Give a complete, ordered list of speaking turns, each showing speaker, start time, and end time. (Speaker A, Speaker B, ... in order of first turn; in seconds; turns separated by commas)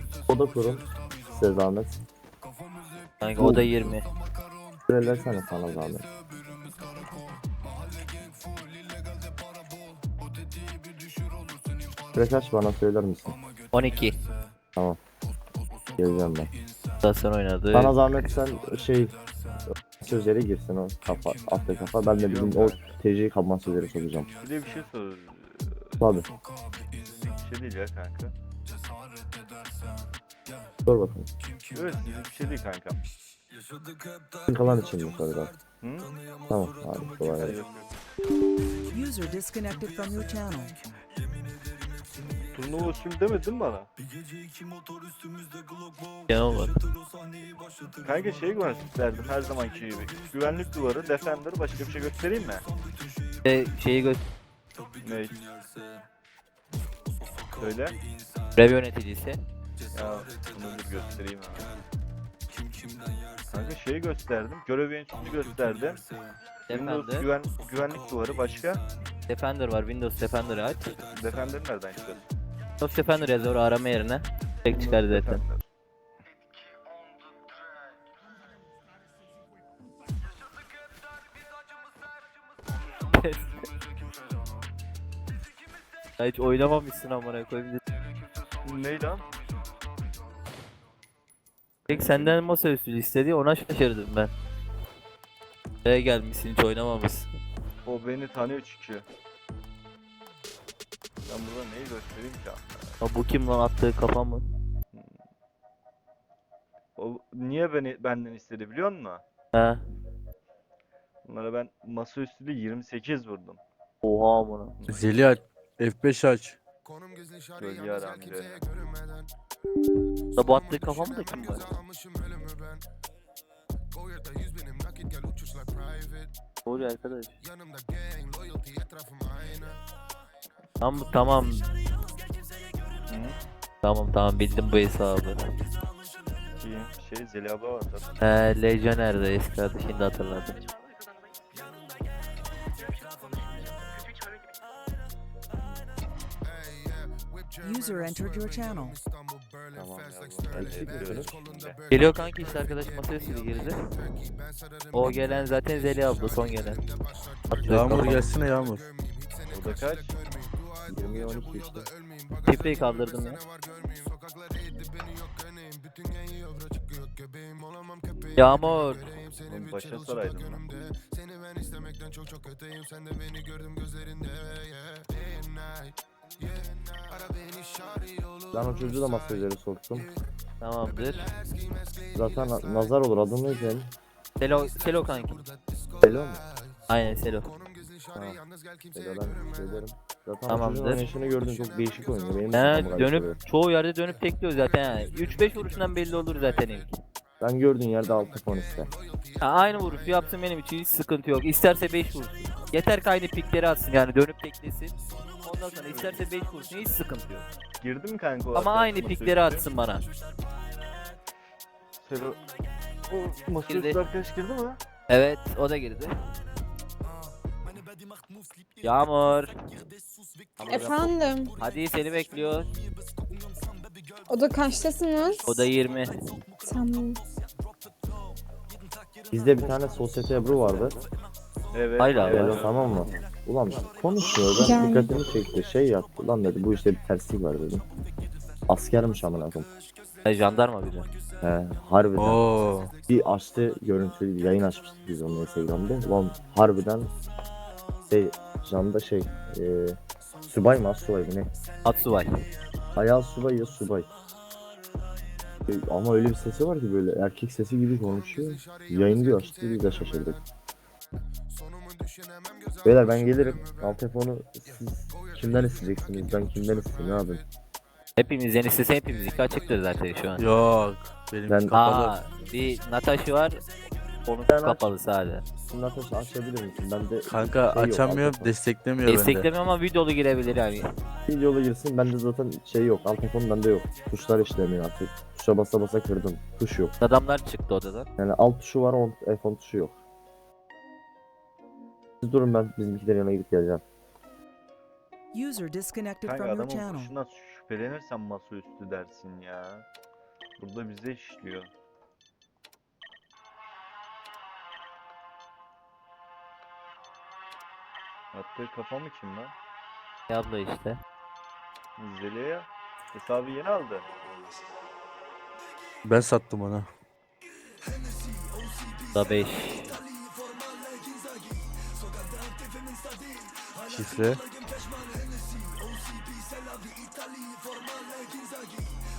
Speaker A: 0.3-2.0, Speaker B: 3.2-4.1, Speaker A: 3.4-3.7, Speaker A: 4.9-6.0, Speaker A: 12.1-13.4, Speaker B: 13.7-14.2, Speaker A: 16.0-16.5, Speaker B: 17.0-18.0, Speaker A: 17.7-19.1, Speaker A: 20.0-24.3, Speaker C: 22.2-23.0, Speaker C: 24.4-25.9, Speaker A: 26.0-26.3, Speaker C: 27.0-28.3, Speaker A: 30.9-31.3, Speaker C: 31.7-33.0, Speaker A: 34.5-35.5, Speaker C: 35.8-36.1, Speaker A: 36.5-37.6, Speaker C: 37.4-37.9, Speaker D: 38.9-40.8, Speaker C: 42.5-43.9, Speaker B: 46.3-46.8, Speaker C: 48.0-52.6, Speaker B: 53.5-54.2, Speaker C: 55.0-55.4, Speaker C: 57.6-58.0, Speaker B: 58.6-59.4, Speaker C: 59.9-61.7, Speaker C: 63.5-66.0, Speaker B: 66.7-67.3, Speaker C: 66.7-68.8, Speaker B: 69.3-71.0, Speaker C: 71.1-72.3, Speaker B: 72.8-75.4, Speaker C: 74.7-75.6, Speaker B: 83.1-83.7, Speaker B: 86.2-87.8, Speaker C: 88.6-89.2, Speaker C: 91.8-92.4, Speaker B: 91.9-94.3, Speaker B: 95.8-97.3, Speaker C: 97.9-99.1, Speaker C: 101.3-102.9, Speaker B: 103.0-104.5, Speaker C: 107.0-109.2, Speaker B: 109.5-109.8, Speaker C: 111.2-113.6, Speaker B: 114.0-114.8, Speaker C: 114.8-115.1, Speaker E: 114.9-116.6, Speaker C: 117.6-118.7, Speaker B: 120.4-121.8, Speaker B: 126.7-127.4, Speaker B: 130.8-131.7, Speaker C: 133.1-133.4, Speaker B: 133.8-135.5, Speaker C: 136.6-138.1, Speaker B: 138.2-140.6, Speaker D: 147.6-149.0, Speaker A: 149.8-151.4, Speaker C: 150.0-151.8, Speaker B: 151.9-153.8, Speaker B: 154.9-156.8, Speaker B: 157.5-158.3, Speaker E: 157.7-158.9, Speaker C: 159.5-160.2, Speaker A: 160.9-161.9, Speaker B: 162.4-163.4, Speaker B: 168.4-169.1, Speaker C: 169.5-170.7, Speaker A: 178.5-180.1, Speaker B: 180.6-181.3, Speaker A: 182.1-183.9, Speaker B: 184.4-185.4, Speaker A: 186.0-186.4, Speaker B: 186.9-187.5, Speaker A: 188.2-188.4, Speaker A: 188.9-193.4, Speaker B: 190.5-191.1, Speaker B: 192.5-197.0, Speaker A: 197.4-198.9, Speaker B: 199.4-207.5, Speaker C: 207.8-209.6, Speaker B: 208.6-210.1, Speaker C: 212.0-212.4, Speaker C: 213.1-214.8, Speaker B: 213.7-214.0, Speaker B: 215.1-216.1, Speaker B: 218.8-219.6, Speaker F: 220.7-221.5, Speaker B: 221.6-222.7, Speaker F: 224.3-225.4, Speaker B: 225.5-226.1, Speaker F: 226.6-227.2, Speaker A: 229.3-231.0, Speaker C: 231.7-233.3, Speaker B: 232.0-232.7, Speaker A: 232.2-237.8, Speaker F: 234.5-235.2, Speaker A: 238.7-239.7, Speaker B: 240.2-241.1, Speaker A: 241.4-242.4, Speaker E: 242.2-242.9, Speaker A: 243.1-247.1, Speaker A: 248.1-251.5, Speaker B: 251.8-252.3, Speaker A: 253.0-254.1, Speaker A: 255.7-260.4, Speaker A: 262.9-267.4, Speaker B: 268.2-270.4, Speaker E: 270.4-272.2, Speaker A: 271.5-271.8, Speaker B: 271.7-273.6, Speaker B: 274.3-275.4, Speaker A: 274.5-274.8, Speaker A: 275.7-278.5, Speaker E: 277.3-279.5, Speaker B: 279.1-280.9, Speaker A: 281.3-286.9, Speaker B: 287.0-288.1, Speaker A: 288.2-290.0, Speaker A: 292.2-293.8, Speaker D: 295.3-297.1, Speaker C: 296.2-299.9, Speaker C: 300.6-301.7, Speaker C: 308.3-309.5, Speaker B: 310.3-311.0, Speaker C: 312.0-314.1, Speaker E: 316.1-316.9, Speaker B: 319.1-320.0, Speaker E: 323.9-324.4